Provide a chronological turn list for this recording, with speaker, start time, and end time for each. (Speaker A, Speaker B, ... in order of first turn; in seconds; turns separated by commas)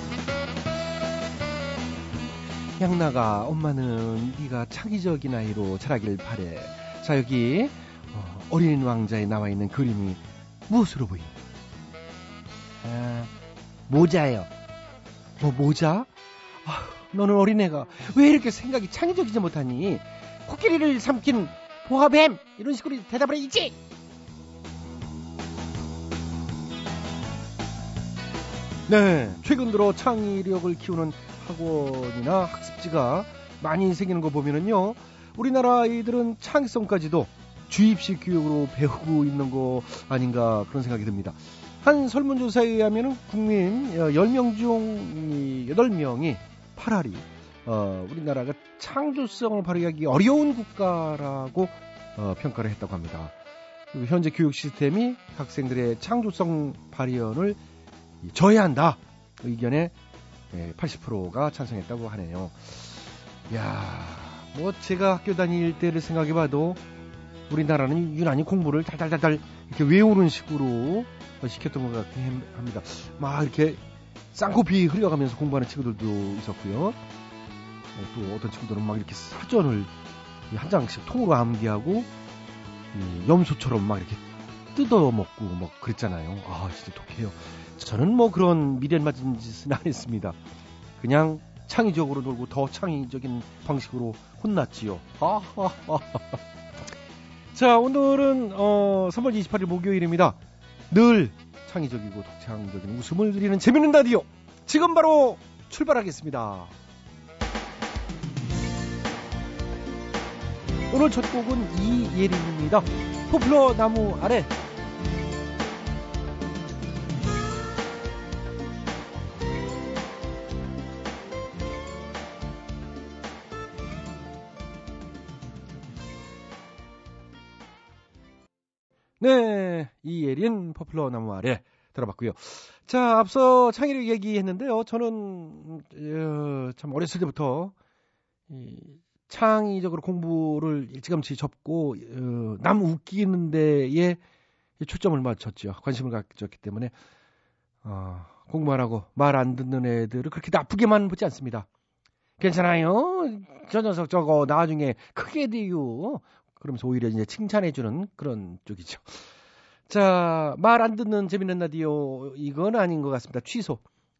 Speaker A: 2.8-11.3, Speaker A: 12.8-13.3, Speaker A: 13.9-14.5, Speaker A: 15.4-16.1, Speaker A: 16.6-23.8, Speaker A: 28.9-53.3, Speaker A: 53.9-57.6, Speaker A: 58.2-59.9, Speaker A: 60.5-63.0, Speaker A: 63.5-66.8, Speaker A: 67.5-73.8, Speaker A: 74.3-77.0, Speaker A: 78.0-79.9, Speaker A: 80.5-82.1, Speaker A: 82.9-90.4, Speaker A: 91.0-96.4, Speaker A: 97.5-100.4, Speaker A: 100.9-106.7, Speaker A: 110.9-114.5, Speaker A: 129.2-137.7, Speaker A: 138.5-144.2, Speaker A: 144.8-146.9, Speaker A: 147.8-151.7, Speaker A: 152.4-159.2, Speaker A: 159.9-163.8